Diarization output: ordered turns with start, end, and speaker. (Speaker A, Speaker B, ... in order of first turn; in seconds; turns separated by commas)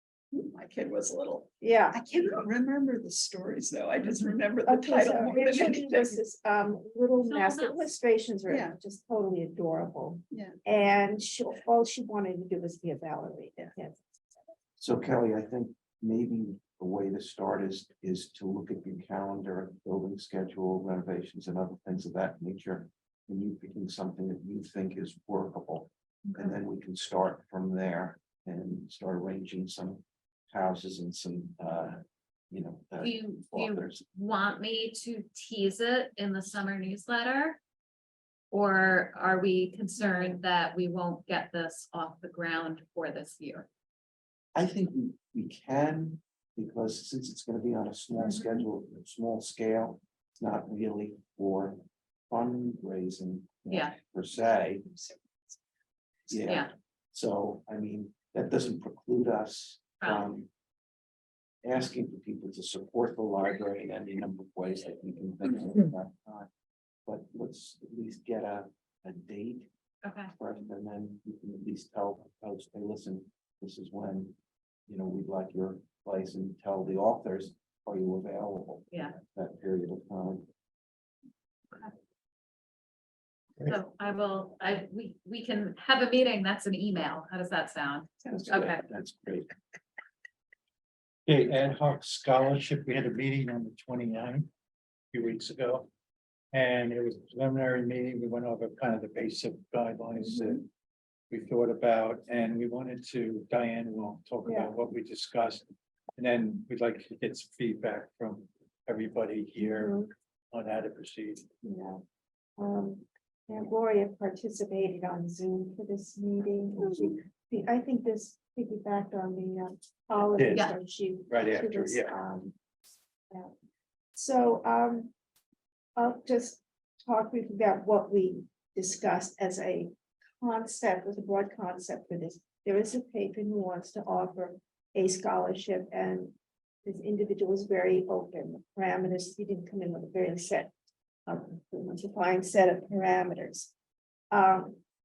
Speaker A: 0.3-6.2, Speaker B: 1.6-2.0, Speaker B: 4.7-14.0, Speaker C: 7.2-7.9, Speaker A: 8.5-8.8, Speaker D: 14.8-34.0, Speaker C: 26.2-26.6, Speaker C: 33.0-37.6, Speaker C: 38.5-43.7, Speaker B: 40.0-40.4, Speaker D: 44.5-54.8, Speaker C: 48.2-48.6, Speaker C: 53.7-53.9, Speaker A: 54.8-55.2, Speaker D: 56.3-60.5, Speaker C: 60.0-60.3, Speaker D: 61.6-66.5, Speaker D: 67.0-69.7, Speaker C: 70.0-70.3, Speaker D: 70.3-74.3, Speaker D: 74.9-80.5, Speaker C: 78.9-79.2, Speaker C: 83.6-88.8, Speaker D: 88.2-89.5, Speaker E: 91.2-94.5, Speaker E: 95.1-95.9, Speaker E: 96.5-100.7, Speaker E: 101.3-105.7, Speaker B: 104.4-104.7, Speaker E: 106.2-111.5, Speaker B: 109.6-110.1, Speaker B: 111.6-112.0, Speaker B: 112.6-122.5, Speaker A: 116.9-117.1, Speaker E: 120.3-120.7, Speaker C: 120.5-120.8, Speaker E: 121.3-122.2, Speaker B: 124.1-125.1, Speaker B: 126.0-140.7, Speaker B: 141.2-143.7, Speaker B: 144.3-144.8